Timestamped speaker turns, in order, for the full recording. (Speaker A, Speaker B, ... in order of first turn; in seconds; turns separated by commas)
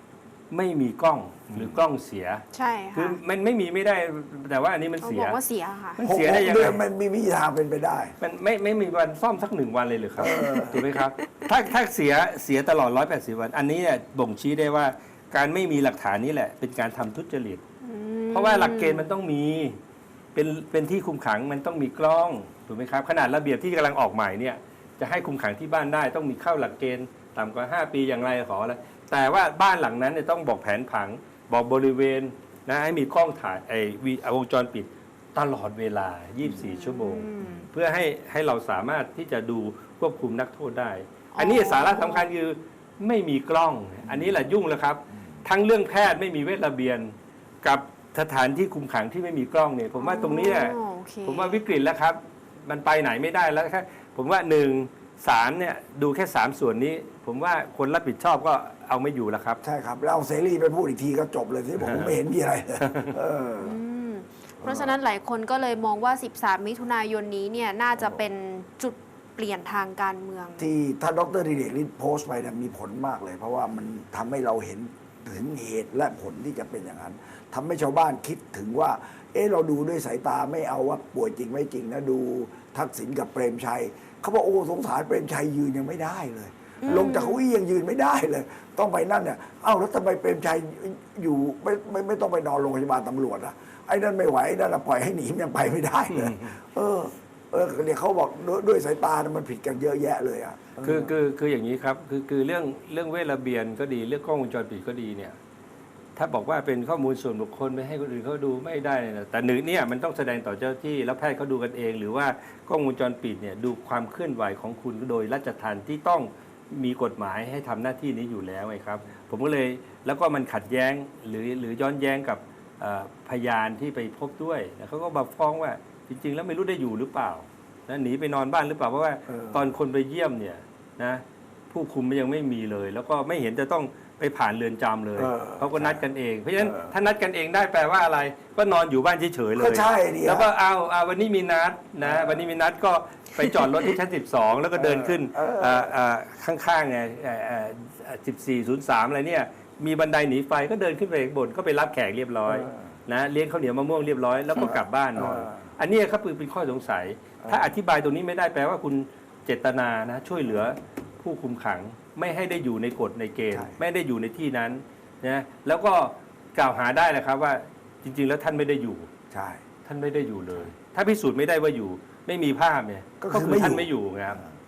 Speaker A: 0.5-5.4, Speaker B: 2.5-3.2, Speaker B: 5.0-6.0, Speaker A: 6.0-6.8, Speaker C: 6.0-8.2, Speaker A: 8.2-17.6, Speaker C: 10.2-10.9, Speaker B: 10.3-11.5, Speaker B: 17.8-19.1, Speaker A: 18.3-19.8, Speaker A: 20.4-59.6, Speaker B: 36.6-37.7, Speaker B: 41.4-42.3, Speaker B: 50.0-51.6, Speaker C: 59.6-63.8, Speaker A: 61.8-62.1, Speaker A: 62.8-63.1, Speaker B: 63.6-70.7, Speaker C: 64.6-64.9, Speaker C: 70.6-101.2, Speaker B: 86.8-87.4, Speaker A: 96.1-96.5, Speaker A: 100.8-105.4, Speaker A: 106.2-169.1, Speaker C: 129.3-129.7, Speaker C: 135.2-136.0, Speaker C: 136.6-136.9, Speaker C: 139.6-140.5, Speaker C: 142.0-142.4, Speaker C: 144.7-145.9, Speaker C: 152.5-152.9, Speaker C: 154.6-155.6, Speaker C: 157.4-157.7, Speaker C: 163.5-163.8, Speaker C: 169.3-169.6, Speaker A: 169.8-174.4, Speaker C: 173.2-174.5